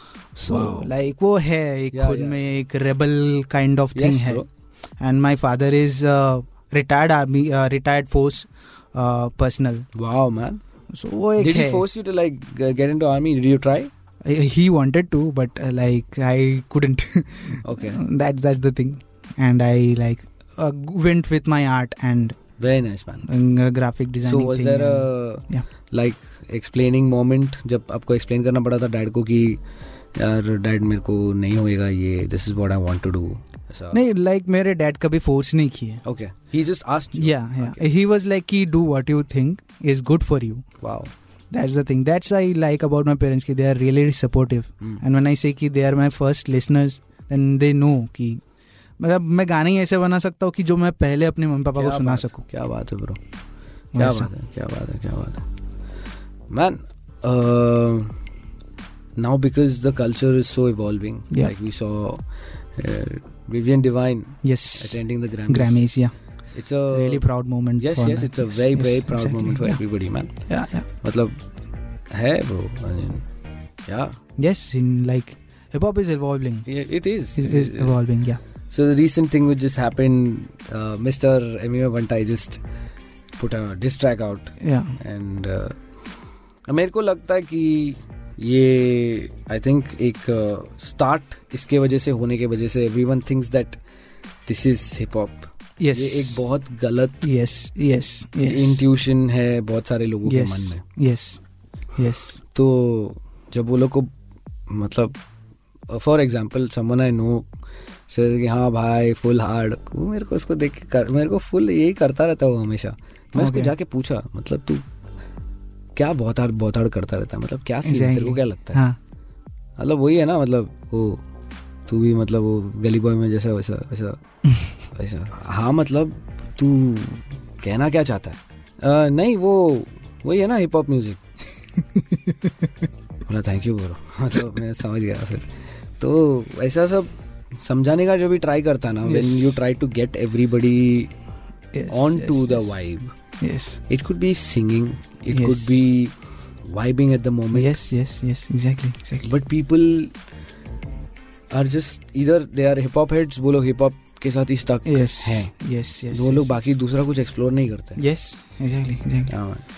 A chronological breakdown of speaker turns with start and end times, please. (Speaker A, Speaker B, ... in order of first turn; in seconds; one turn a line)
Speaker A: 0.3-4.4
Speaker B: 0.4-0.9
Speaker B: 1.9-2.4
Speaker B: 3.9-4.5
Speaker A: 5.0-9.8
Speaker B: 9.9-10.6
Speaker A: 10.9-11.8
Speaker B: 11.4-13.9
Speaker A: 14.2-22.4
Speaker B: 17.6-18.0
Speaker B: 22.6-23.3
Speaker A: 23.2-25.7
Speaker B: 24.2-29.6
Speaker B: 30.1-34.0
Speaker A: 33.9-36.0
Speaker B: 36.0-37.8
Speaker A: 37.1-40.6
Speaker B: 40.8-41.1
Speaker A: 41.5-48.4
Speaker A: 49.0-52.4
Speaker B: 51.8-53.2
Speaker A: 53.9-54.3
Speaker B: 54.0-55.4
Speaker B: 56.5-58.1
Speaker B: 59.2-62.2
Speaker B: 62.7-65.8
Speaker A: 64.4-66.1
Speaker B: 66.5-67.2
Speaker A: 66.9-69.8
Speaker B: 67.8-70.4
Speaker A: 70.5-70.9
Speaker B: 71.0-71.4
Speaker B: 72.1-73.2
Speaker B: 73.8-74.2
Speaker A: 74.4-76.7
Speaker B: 76.7-78.0
Speaker A: 77.3-78.4
Speaker B: 78.7-82.6
Speaker B: 83.4-85.8
Speaker A: 84.6-84.9
Speaker B: 86.7-93.8
Speaker B: 94.5-97.3
Speaker A: 95.8-96.4
Speaker A: 97.2-98.8
Speaker B: 98.4-100.8
Speaker A: 100.2-101.4
Speaker A: 102.0-102.4
Speaker B: 102.5-104.1
Speaker B: 104.7-105.2
Speaker B: 105.9-107.5
Speaker B: 108.1-114.9
Speaker A: 113.3-113.7
Speaker B: 116.0-118.8
Speaker A: 117.8-119.0
Speaker B: 119.8-121.2
Speaker B: 121.9-124.2
Speaker B: 124.9-131.2
Speaker B: 133.2-141.1
Speaker A: 139.0-139.6
Speaker A: 141.7-142.7
Speaker B: 141.9-143.1
Speaker A: 143.4-143.8
Speaker B: 143.9-146.1
Speaker A: 145.3-145.8
Speaker B: 146.6-147.8
Speaker A: 147.5-149.3
Speaker B: 149.2-150.1
Speaker B: 151.5-155.5
Speaker A: 154.8-156.7
Speaker B: 156.1-158.0
Speaker A: 158.0-159.3
Speaker B: 159.3-159.6